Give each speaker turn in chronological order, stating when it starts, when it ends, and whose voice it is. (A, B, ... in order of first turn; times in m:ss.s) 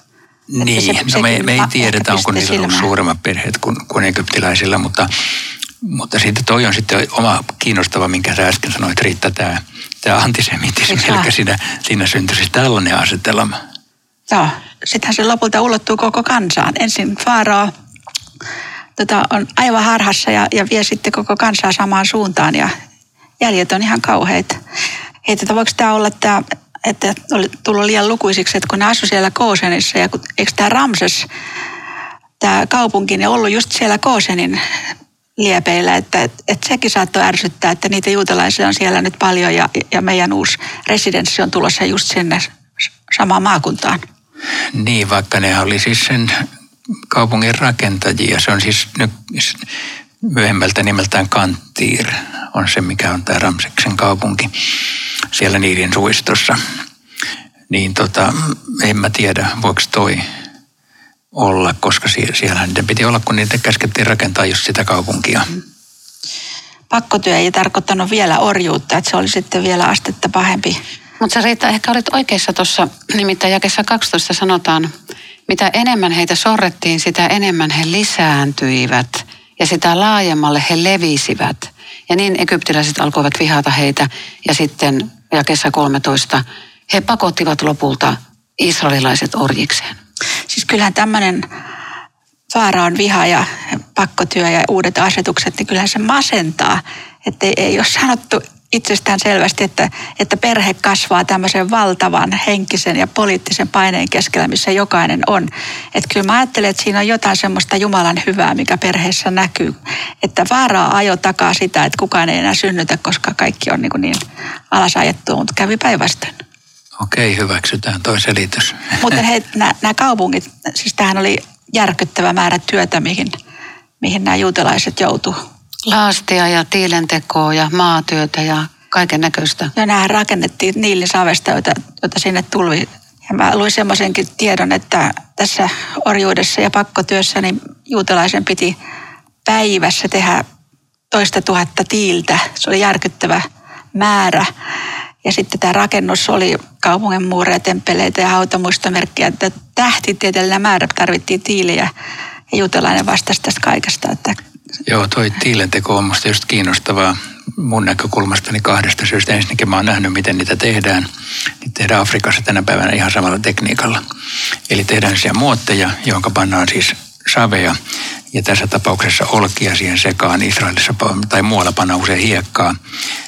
0:00.5-0:05.1 A
0:00.6-0:02.9 B
0:05.8-0:13.6 A
0:10.9-0:11.3 B
0:14.3-0:17.7 B
0:19.0-0:22.7 B
0:23.4-0:24.6 B
0:25.2-0:31.3 B
0:32.4-0:34.6 B
0:35.4-0:42.5 B
0:43.1-0:44.0 B
0:44.7-0:46.4 A
0:47.1-0:49.6 A
0:50.2-0:54.5 A
0:55.3-0:56.6 A
0:57.7-1:00.2 A
1:01.3-1:05.5 A
1:06.9-1:10.8 B
1:11.2-1:14.9 C
1:15.5-1:30.0 C
1:30.5-1:31.4 B
1:32.5-1:56.4 B
1:57.0-1:59.2 A
1:59.0-2:03.4 B
2:04.0-2:05.4 B
2:05.9-2:09.7 C
2:09.8-2:18.8 B
2:19.4-2:20.4 B
2:21.1-2:23.4 B
2:24.0-2:24.5 B
2:25.2-2:31.9 B
2:32.5-2:34.4 B
2:34.9-2:41.1 A
2:41.6-2:44.0 A
2:44.7-2:47.8 A
2:48.3-2:52.8 A